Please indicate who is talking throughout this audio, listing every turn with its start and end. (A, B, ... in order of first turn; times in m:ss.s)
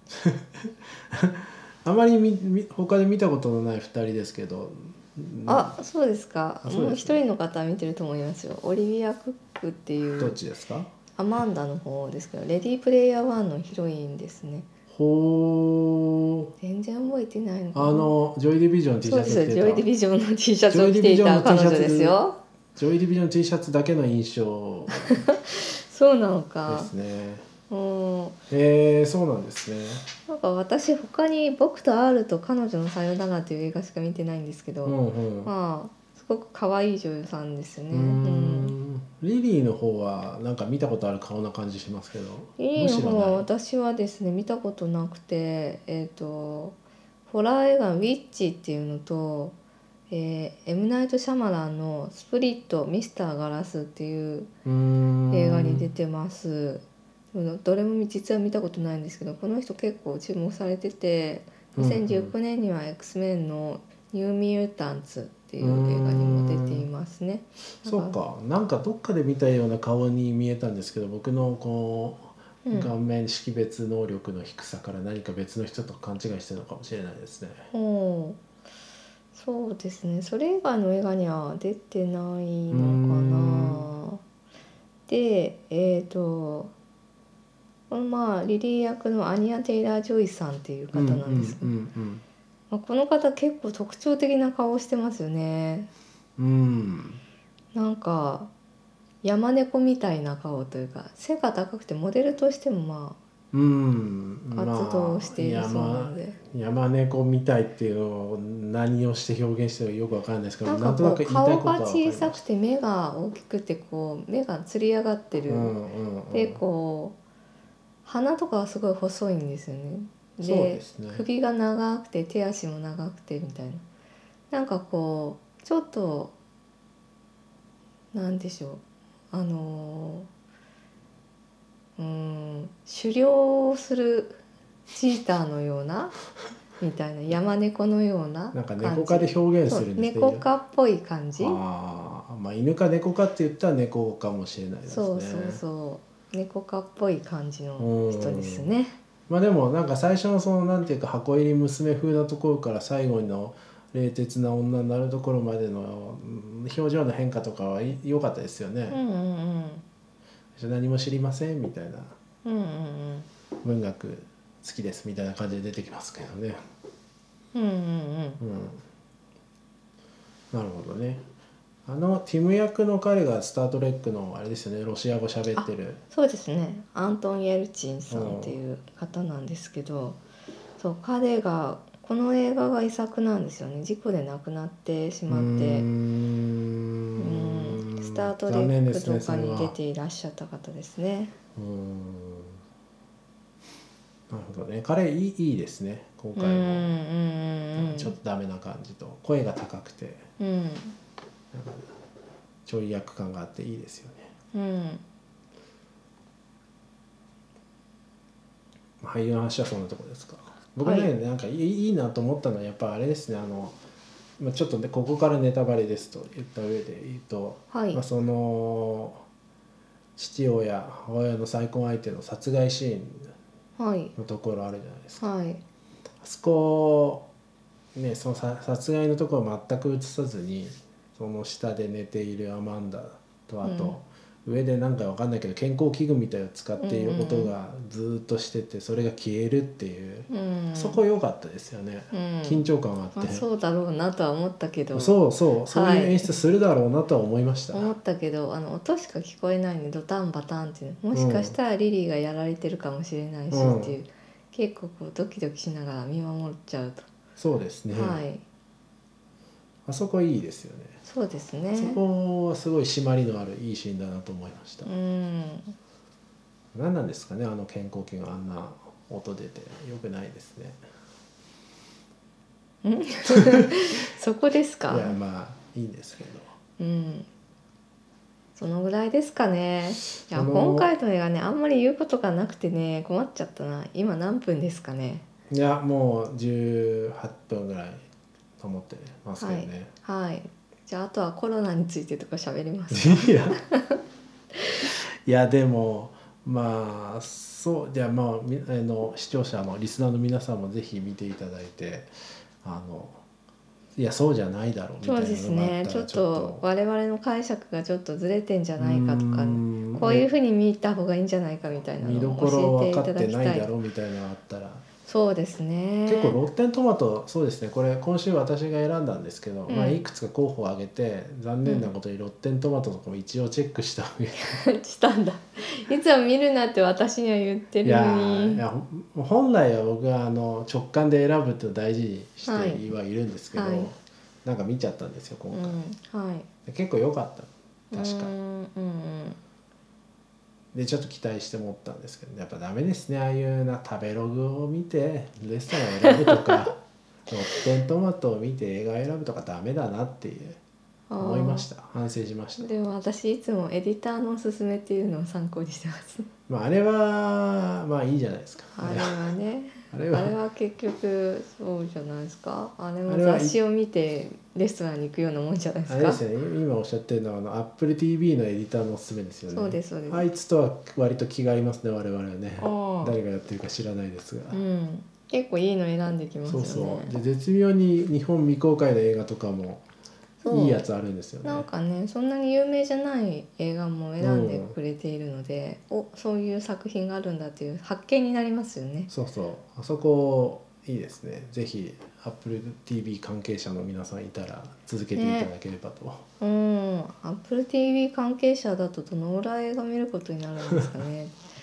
0:00.2-0:05.7 A
0:05.5-0:10.4 B
0:06.6-0:07.2 A
0:10.2-0:10.9 A
0:11.2-0:14.7 B
0:14.9-0:16.5 A
0:16.6-0:18.1 B
0:17.7-0:19.8 A
0:19.0-0:22.4 B
0:20.7-0:22.2 A
0:22.8-0:25.2 A
0:25.0-0:26.9 B
0:26.7-0:27.5 A
0:27.7-0:28.4 B
0:28.5-0:30.0 A
0:30.3-0:38.7 B
0:34.8-0:35.5 A
0:37.9-0:43.4 A
0:42.6-0:46.8 B
0:47.3-0:49.6 B
0:50.1-0:54.5 B
0:54.6-0:55.9 A
0:55.3-1:08.2 B
1:01.8-1:02.3 A
1:05.6-1:06.9 A
1:07.8-1:17.7 A
1:12.6-1:12.9 B
1:17.7-1:18.4 B
1:19.3-1:24.2 B
1:22.7-1:23.9 A
1:25.1-1:26.7 B
1:27.9-1:31.7 B
1:30.9-1:32.2 A
1:32.7-1:35.9 B
1:36.4-1:37.2 A
1:37.7-1:38.5 B
1:39.2-1:43.2 B
1:43.5-1:52.4 A
1:44.5-1:46.4 B
1:50.6-1:55.7 B
1:55.5-1:56.6 A
1:56.3-1:57.2 B
1:58.0-2:03.8 B
2:00.4-2:01.2 A
2:04.5-2:06.3 B
2:08.1-2:10.3 B
2:12.0-2:14.4 B
2:14.9-2:16.1 B
2:16.8-2:21.6 B
2:18.5-2:20.4 A
2:21.4-2:25.6 A
2:24.9-2:29.0 B
2:27.8-2:28.7 A
2:29.3-2:39.0 A
2:38.9-2:39.8 B
2:40.6-2:42.2 A
2:42.4-2:43.3 B
2:43.6-2:46.6 A
2:47.5-2:48.4 B
2:48.4-2:48.8 A
2:50.5-2:51.2 A
2:51.8-2:56.0 A
2:55.6-3:00.2 B
2:58.1-2:58.6 A
3:00.8-3:05.9 B
3:05.3-3:09.7 A
3:07.2-3:11.3 B
3:11.6-3:12.6 A
3:14.3-3:16.9 A
3:16.4-3:18.1 B
3:17.7-3:20.3 A
3:20.4-3:21.0 B
3:21.5-3:21.9 A
3:22.6-3:24.3 A
3:24.5-3:25.0 B
3:29.0-3:33.8 A
3:30.8-3:31.1 B
3:34.4-3:39.2 A
3:37.7-3:38.0 B
3:40.2-3:43.3 A
3:43.8-3:44.1 B
3:44.2-3:45.2 A
3:45.2-3:45.6 B
3:46.2-3:47.3 A
3:47.9-4:03.4 A
3:53.6-3:54.0 B
3:56.8-3:57.5 B
4:00.3-4:01.0 B
4:02.1-4:06.4 B
4:04.9-4:07.9 A
4:07.7-4:17.1 B
4:11.1-4:11.5 A
4:13.5-4:14.0 A
4:17.4-4:18.2 A
4:17.9-4:18.4 B
4:19.8-4:21.0 A
4:21.0-4:22.0 B
4:21.7-4:24.9 A
4:24.8-4:25.7 B
4:26.7-4:30.8 A
4:32.8-4:35.2 B
4:33.3-4:33.6 A
4:34.9-4:36.5 A
4:36.8-4:37.3 B
4:38.6-4:45.2 B
4:40.2-4:40.9 A
4:45.5-4:48.0 A
4:48.6-4:49.9 A
4:49.4-4:54.0 B
4:52.9-4:53.6 A
4:54.9-5:02.1 A
5:02.6-5:03.2 A
5:04.0-5:06.6 A
5:05.0-5:13.7 B
5:08.8-5:10.2 A
5:12.0-5:14.8 A
5:15.0-5:16.4 B
5:16.0-5:24.6 A
5:19.7-5:20.0 B
5:21.6-5:21.9 B
5:24.4-5:28.6 B
5:27.8-5:35.8 A
5:32.4-5:32.9 B
5:33.5-5:33.9 B
5:35.5-5:36.5 B
5:36.6-5:38.3 A
5:37.9-5:39.4 B
5:40.7-5:50.6 A
5:46.0-5:46.6 B
5:51.1-5:51.7 B
5:51.2-5:52.7 A
5:52.6-5:56.3 B
5:56.5-5:59.3 A
5:58.7-6:06.2 B
5:59.9-6:00.4 A
6:03.1-6:03.6 A
6:05.9-6:14.6 A
6:09.5-6:10.2 B
6:12.6-6:13.2 B
6:14.5-6:17.1 B
6:16.4-6:19.8 A
6:20.4-6:20.8 B
6:20.5-6:21.6 A
6:21.4-6:29.1 B
6:24.2-6:24.8 A
6:29.1-6:36.3 A
6:35.2-6:35.5 B
6:36.4-6:41.4 B